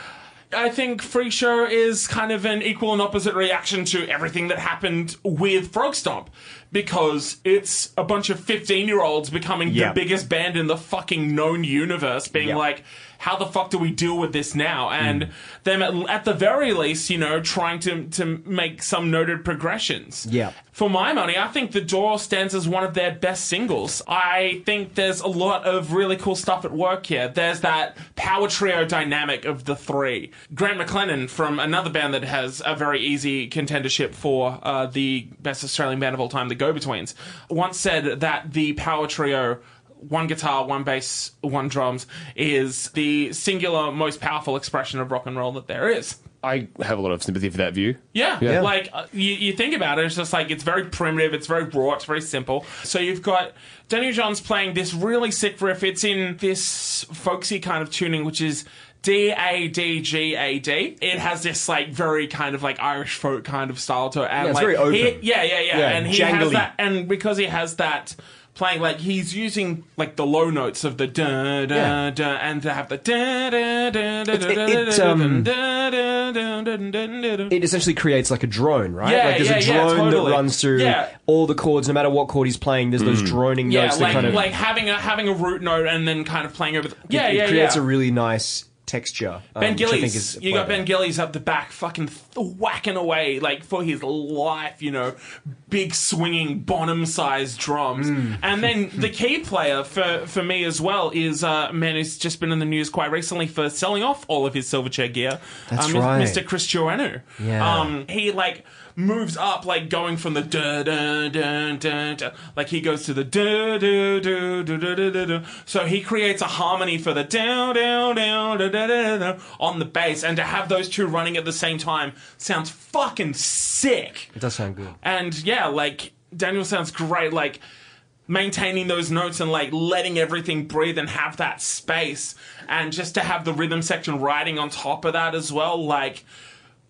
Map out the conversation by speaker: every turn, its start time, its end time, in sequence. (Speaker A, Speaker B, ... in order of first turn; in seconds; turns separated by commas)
Speaker A: 0.5-46.2, Speaker B: 9.7-10.0, Speaker B: 12.3-12.6, Speaker B: 15.0-15.3, Speaker B: 20.2-20.6, Speaker C: 46.4-48.7, Speaker A: 48.1-77.5, Speaker B: 64.4-66.7, Speaker B: 71.7-72.0, Speaker B: 74.3-75.5, Speaker B: 77.5-84.5, Speaker A: 79.0-81.1, Speaker C: 83.0-83.4, Speaker A: 83.6-87.8, Speaker C: 84.0-84.5, Speaker B: 87.1-90.9, Speaker A: 89.6-124.3, Speaker B: 98.0-98.4, Speaker B: 105.7-106.4, Speaker B: 107.4-108.0, Speaker B: 124.3-125.0, Speaker A: 125.0-127.6, Speaker A: 128.3-136.3